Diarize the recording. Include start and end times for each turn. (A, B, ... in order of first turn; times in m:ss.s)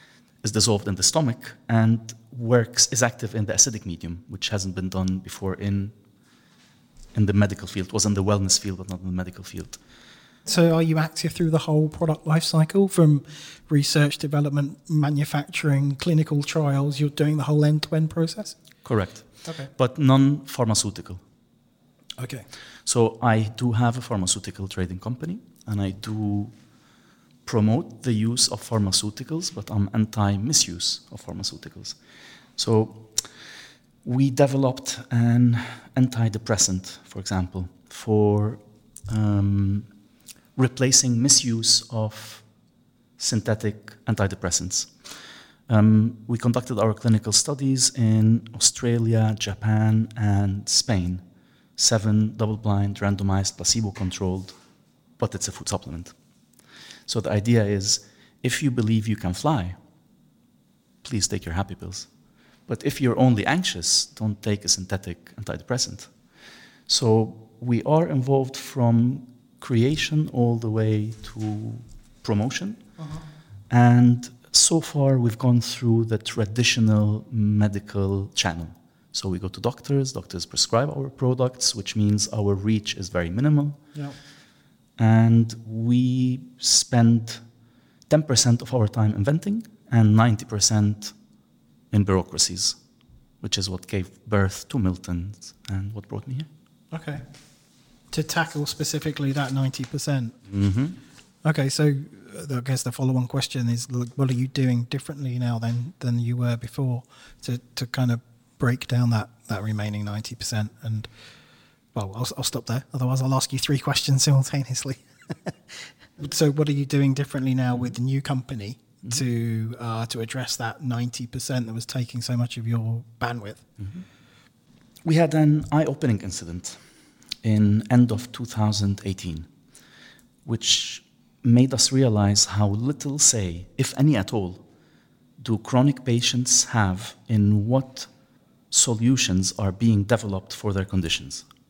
0:00.4-0:05.9 A
0:07.1-0:09.8 A
0:10.4-0:18.6 B
0:18.8-0:21.2 A
0:19.4-0:19.7 B
0:22.2-0:22.5 B
0:22.9-0:26.5 A
0:27.4-0:32.0 A
0:32.6-0:33.2 A
0:34.0-0:39.9 A
0:40.6-0:42.5 A
0:43.2-0:44.9 A
0:45.7-0:51.2 A
0:51.8-0:54.5 A
0:55.2-0:56.2 A
0:57.1-0:59.8 A
1:01.0-1:02.1 A
1:02.7-1:06.1 A
1:06.9-1:12.9 A
1:13.0-1:13.2 B
1:13.7-1:23.8 A
1:25.0-1:27.4 A
1:28.1-1:31.2 A
1:31.9-1:32.8 A
1:33.4-1:36.5 A
1:36.9-1:37.3 B
1:38.1-1:40.4 B
1:40.5-1:41.0 A
1:41.4-1:51.1 B
1:51.9-2:03.7 B
2:03.8-2:04.0 A
2:05.0-2:06.8 A
2:07.4-2:09.5 A
2:10.4-2:14.6 A
2:15.4-2:18.1 A
2:18.7-2:21.5 A